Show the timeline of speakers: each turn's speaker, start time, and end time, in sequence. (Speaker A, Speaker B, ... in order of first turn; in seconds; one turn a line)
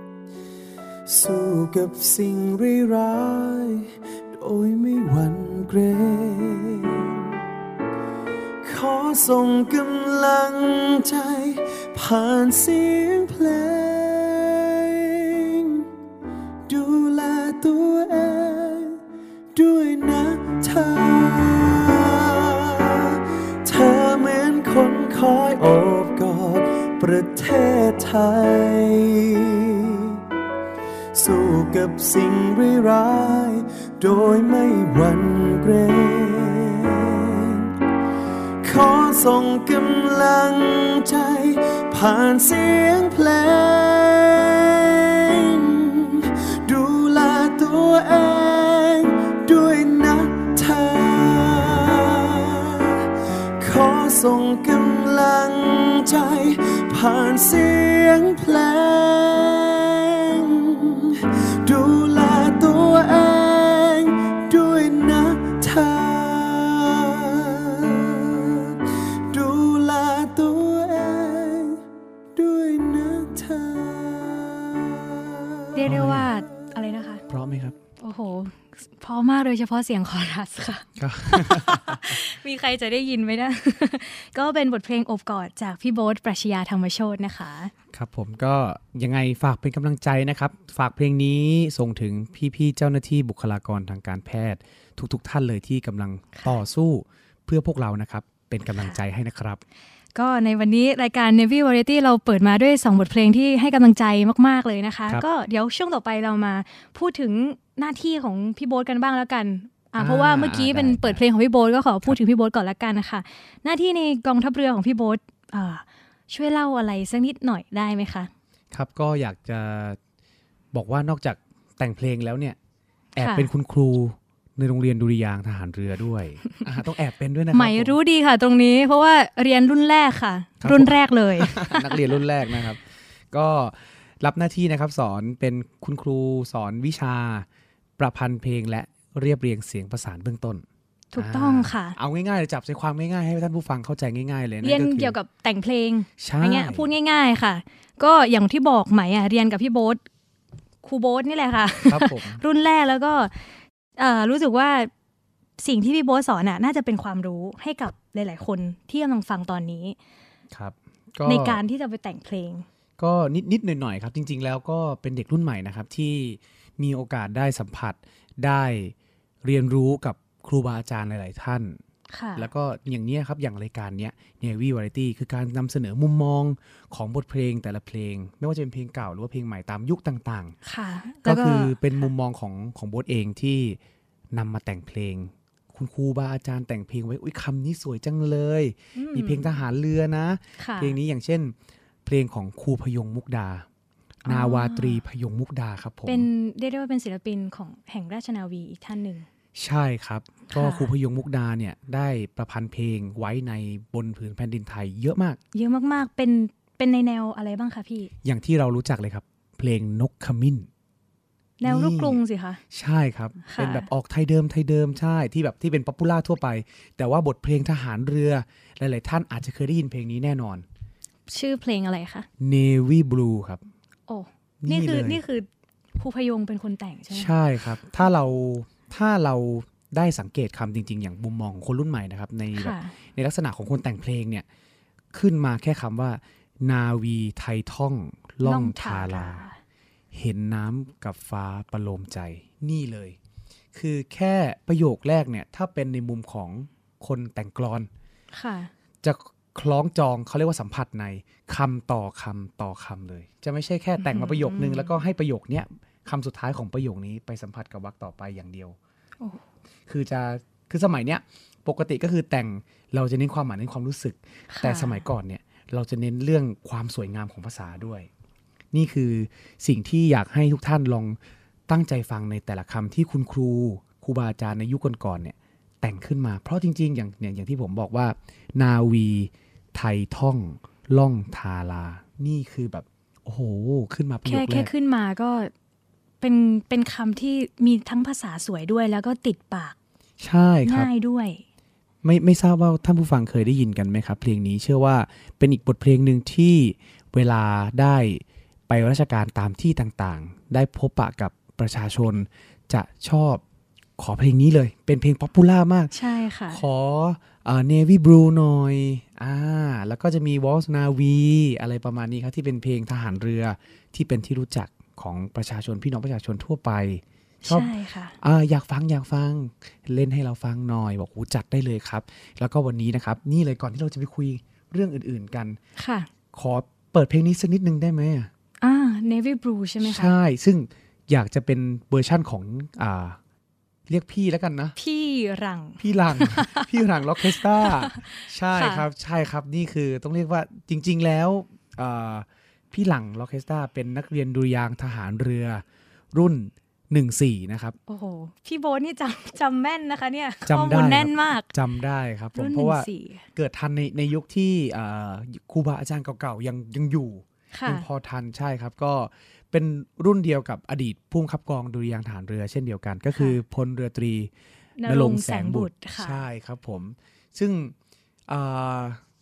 Speaker A: 1.1-7.2
Speaker A: 8.6-15.8
Speaker A: 16.7-19.0
Speaker A: 19.5-30.1
Speaker A: 31.1-37.7
Speaker A: 38.6-52.9
Speaker A: 53.6-68.8
Speaker A: 69.3-71.8
Speaker A: 72.3-75.9
Speaker B: 75.8-77.2
Speaker C: 75.9-76.3
Speaker C: 77.3-77.8
Speaker B: 78.0-87.7
Speaker C: 81.0-82.1
Speaker C: 87.9-99.6
Speaker B: 100.2-118.3
Speaker C: 110.0-111.2
Speaker C: 118.7-120.0
Speaker C: 120.7-122.6
Speaker C: 123.2-128.0
Speaker B: 123.2-123.5
Speaker B: 127.5-132.0
Speaker C: 130.6-137.5
Speaker C: 138.0-140.6
Speaker B: 141.1-142.0
Speaker C: 141.2-145.2
Speaker B: 144.6-150.0
Speaker C: 146.2-146.8
Speaker B: 150.8-154.9
Speaker C: 151.9-152.4
Speaker B: 155.6-160.0
Speaker C: 160.5-161.6
Speaker B: 161.3-162.7
Speaker C: 163.0-171.8
Speaker B: 172.1-172.5
Speaker C: 172.4-180.6
Speaker B: 180.7-182.1
Speaker C: 181.2-183.8
Speaker C: 184.3-191.5
Speaker B: 188.9-189.5
Speaker B: 190.6-191.0
Speaker C: 192.1-193.7
Speaker C: 194.2-196.3
Speaker B: 194.3-195.0
Speaker B: 196.1-199.3
Speaker C: 199.6-205.4
Speaker B: 200.5-200.9
Speaker B: 205.5-208.1
Speaker C: 208.2-210.7
Speaker B: 211.6-212.6
Speaker C: 211.7-212.2
Speaker C: 212.7-220.7
Speaker B: 213.5-213.9
Speaker B: 221.3-222.3
Speaker C: 222.4-223.7
Speaker B: 224.1-227.3
Speaker C: 224.6-225.2
Speaker C: 227.1-234.5
Speaker B: 232.6-232.9
Speaker C: 235.1-239.5
Speaker B: 238.4-239.6
Speaker C: 240.1-243.2
Speaker C: 243.7-247.9
Speaker B: 248.3-248.7
Speaker C: 249.0-258.8
Speaker B: 254.0-254.9
Speaker C: 259.9-268.1
Speaker B: 264.5-265.0
Speaker C: 268.7-284.7
Speaker B: 284.2-285.5
Speaker B: 286.2-289.8
Speaker C: 290.2-290.9
Speaker B: 290.6-291.4
Speaker C: 292.0-303.4
Speaker C: 304.0-305.9
Speaker B: 305.9-306.6
Speaker C: 306.5-325.6
Speaker B: 317.4-318.2
Speaker B: 325.8-326.1
Speaker C: 326.3-328.3
Speaker B: 328.6-330.1
Speaker C: 329.8-333.2
Speaker C: 333.9-334.8
Speaker B: 334.8-336.7
Speaker C: 335.8-347.8
Speaker B: 337.3-338.8
Speaker B: 347.9-351.5
Speaker C: 350.5-364.3
Speaker B: 352.4-353.3
Speaker B: 357.5-357.9
Speaker B: 364.8-366.2
Speaker C: 364.9-367.7
Speaker C: 368.3-369.0